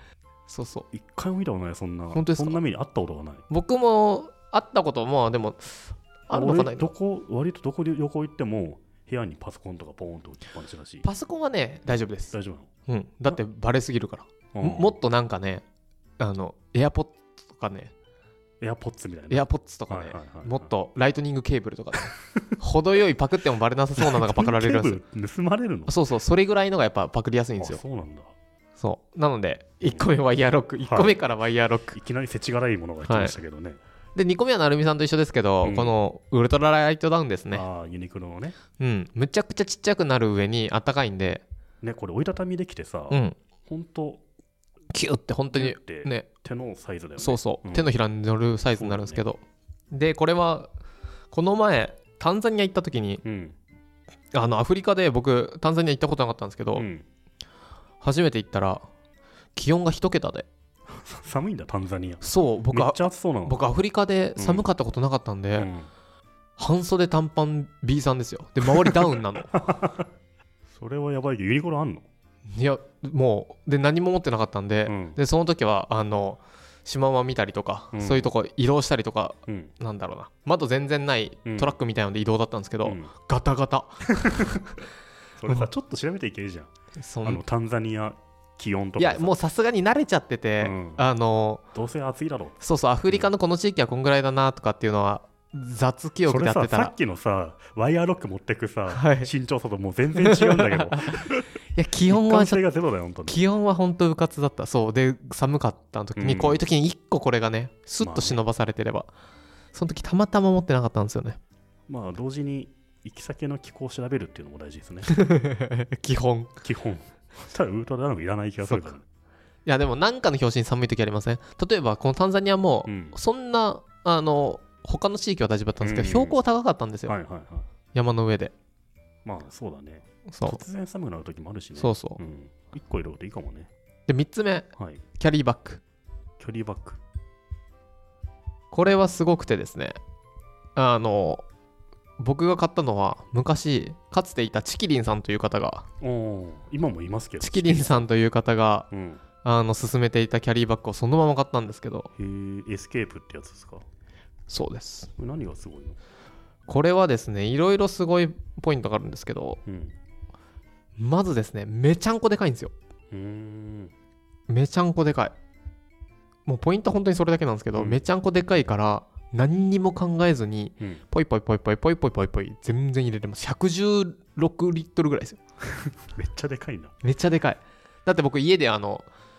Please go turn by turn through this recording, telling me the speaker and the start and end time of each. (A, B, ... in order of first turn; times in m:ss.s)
0:00.5-0:00.9 A
0:00.9-0:03.4 B
0:02.1-0:02.6 A
0:03.5-0:06.9 A
0:06.3-0:11.1 B
0:11.0-0:12.3 A
0:12.3-0:12.7 B
0:12.9-0:15.6 A
0:14.5-0:15.0 B
0:16.2-0:17.9 A
0:18.6-0:20.7 B
0:19.3-0:25.0 A
0:22.1-0:22.6 B
0:24.0-0:25.9 B
0:25.9-0:27.8 A
0:27.6-0:28.3 B
0:28.8-0:32.0 A
0:30.8-0:31.2 B
0:31.9-0:33.8 B
0:33.0-0:33.4 A
0:34.1-0:37.6 A
0:35.6-0:36.0 B
0:37.5-0:38.6 B
0:38.8-0:41.4 A
0:41.8-0:44.2 B
0:43.1-0:43.4 A
0:44.9-0:46.3 A
0:45.5-0:47.9 B
0:47.2-0:49.4 A
0:48.7-0:49.2 B
0:49.9-0:50.7 A
0:51.3-0:53.2 A
0:53.2-0:53.6 B
0:54.3-0:56.9 A
0:56.7-0:57.0 B
0:58.0-0:58.8 A
0:59.6-1:00.5 A
1:00.9-1:03.7 B
1:02.2-1:05.7 A
1:04.4-1:04.7 B
1:05.5-1:05.9 B
1:06.6-1:09.5 A
1:08.9-1:10.1 B
1:10.7-1:12.1 B
1:12.5-1:24.8 A
1:14.8-1:15.2 B
1:17.9-1:18.3 B
1:19.5-1:19.7 B
1:21.4-1:21.8 B
1:22.8-1:23.1 B
1:24.2-1:24.7 B
1:25.4-1:26.7 B
1:27.0-1:27.4 A
1:27.2-1:29.3 B
1:29.0-1:31.6 A
1:30.6-1:31.0 B
1:31.7-1:33.3 B
1:32.6-1:36.9 A
1:36.3-1:41.5 B
1:38.9-1:39.3 A
1:40.2-1:41.2 A
1:41.7-1:42.6 A
1:42.0-1:43.4 B
1:43.2-1:49.1 A
1:46.2-1:46.6 B
1:48.0-1:48.4 B
1:49.7-1:51.4 A
1:51.9-1:55.1 B
1:55.1-1:56.5 A
1:56.6-1:59.0 B
1:58.6-1:58.9 A
1:59.6-2:07.2 A
2:02.8-2:03.2 B
2:05.8-2:06.4 B
2:07.1-2:07.7 B
2:07.9-2:08.5 A
2:09.2-2:13.7 B
2:10.3-2:10.6 A
2:11.8-2:12.2 A
2:14.1-2:15.8 A
2:14.8-2:15.0 B
2:16.4-2:17.0 B
2:18.7-2:20.0 A
2:20.8-2:21.4 A
2:22.2-2:25.9 A
2:26.0-2:28.1 B
2:27.4-2:28.9 A
2:28.9-2:29.2 B
2:29.4-2:32.1 A
2:32.2-2:33.8 B
2:34.5-2:35.1 A
2:35.2-2:36.0 B
2:36.7-2:39.6 A
2:39.6-2:40.0 B
2:41.0-2:42.7 A
2:43.1-2:43.9 B
2:44.5-2:45.3 A
2:46.5-2:55.4 A
2:47.7-2:48.0 B
2:55.8-2:56.9 B
2:57.0-2:59.0 A